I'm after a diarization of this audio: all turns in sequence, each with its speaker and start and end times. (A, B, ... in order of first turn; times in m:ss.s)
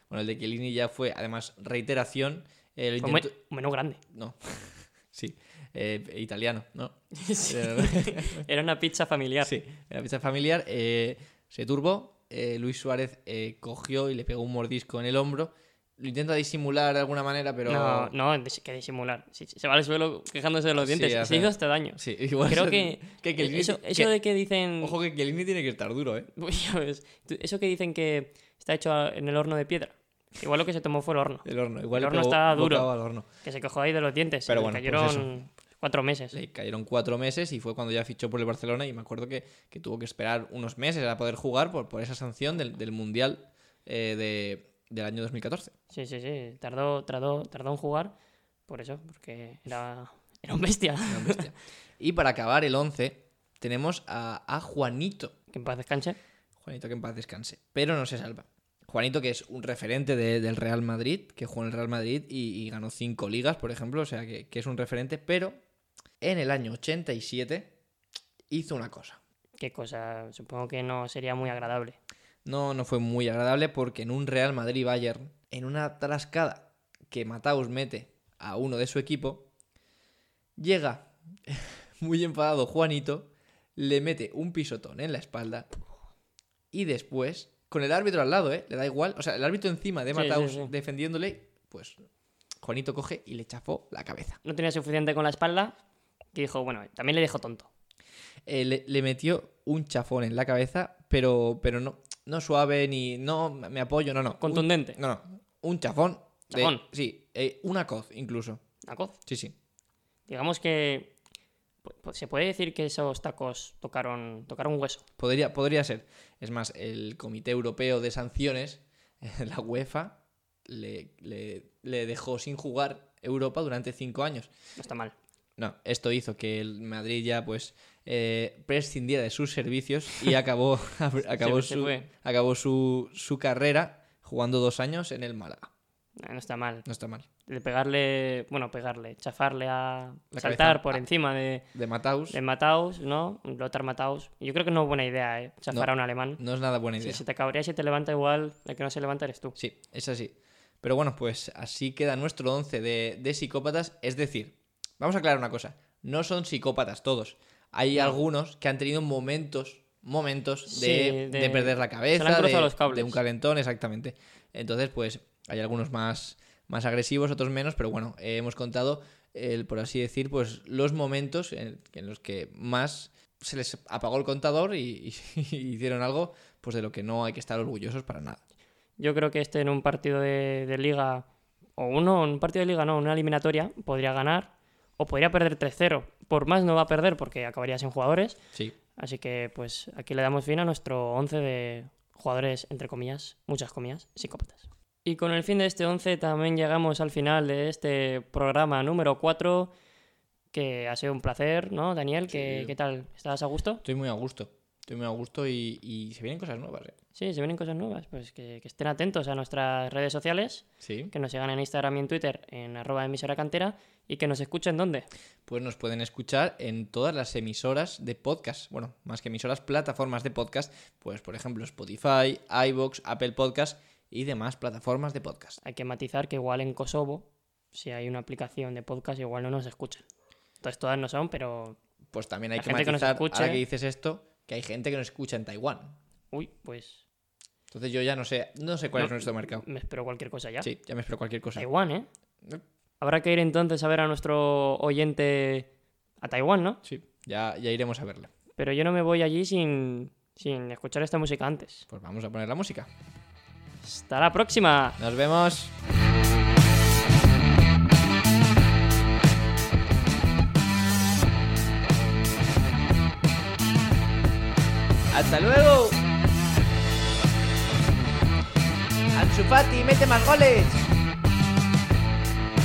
0:00.1-0:03.3 A
0:03.0-0:04.0 B
0:04.1-0:08.5 A
0:07.1-0:09.5 B
0:09.4-0:18.1 A
0:17.6-0:25.0 B
0:20.8-0:24.1 A
0:24.8-0:26.3 A
0:26.4-0:32.9 B
0:31.4-0:33.2 A
0:33.4-0:36.4 B
0:34.5-0:35.3 A
0:36.3-0:45.7 A
0:45.9-0:48.1 B
0:48.7-0:51.5 B
0:51.1-0:55.3 A
0:55.5-0:56.2 B
0:56.6-1:05.6 A
1:06.2-1:07.7 A
1:08.5-1:09.2 A
1:09.6-1:12.0 B
1:12.4-1:19.5 A
1:20.6-1:25.7 A
1:26.7-1:32.0 A
1:30.1-1:30.7 B
1:32.6-1:34.4 A
1:34.4-1:35.8 B
1:36.3-1:37.7 B
1:38.5-1:48.6 A
1:44.4-1:45.0 B
1:46.5-1:46.8 B
1:48.8-1:49.1 B
1:49.2-1:49.5 A
1:50.3-1:51.1 B
1:51.8-1:55.0 B
1:55.2-2:04.5 A
2:04.8-2:05.1 B
2:05.6-2:15.7 A
2:11.3-2:12.1 B
2:16.2-2:16.8 B
2:16.8-2:17.3 A
2:17.5-2:21.6 B
2:20.3-2:21.0 A
2:21.7-2:22.4 A
2:22.3-2:26.4 B
2:25.7-2:27.2 A
2:27.0-2:29.6 B
2:29.6-2:58.4 A
2:37.9-2:38.2 B
2:40.7-2:43.2 B
2:59.0-3:01.2 B
3:01.8-3:08.4 B
3:09.0-3:19.7 B
3:20.5-3:23.8 B
3:22.3-3:22.7 A
3:23.8-3:26.9 A
3:27.2-3:35.1 B
3:30.8-3:31.1 A
3:35.5-3:45.6 A
3:45.6-3:50.0 B
3:50.6-3:51.8 B
3:52.1-3:56.0 A
3:52.6-3:53.6 B
3:56.3-3:57.0 B
3:57.7-3:59.6 A
3:58.9-4:00.7 B
4:00.6-4:01.7 A
4:01.5-4:02.1 B
4:03.0-4:05.7 B
4:06.2-4:06.8 B
4:06.8-4:08.3 A
4:08.6-4:11.8 B
4:11.9-4:12.9 A
4:13.8-4:15.0 B
4:15.0-4:15.7 A
4:25.1-4:26.0 A
4:29.1-4:30.8 A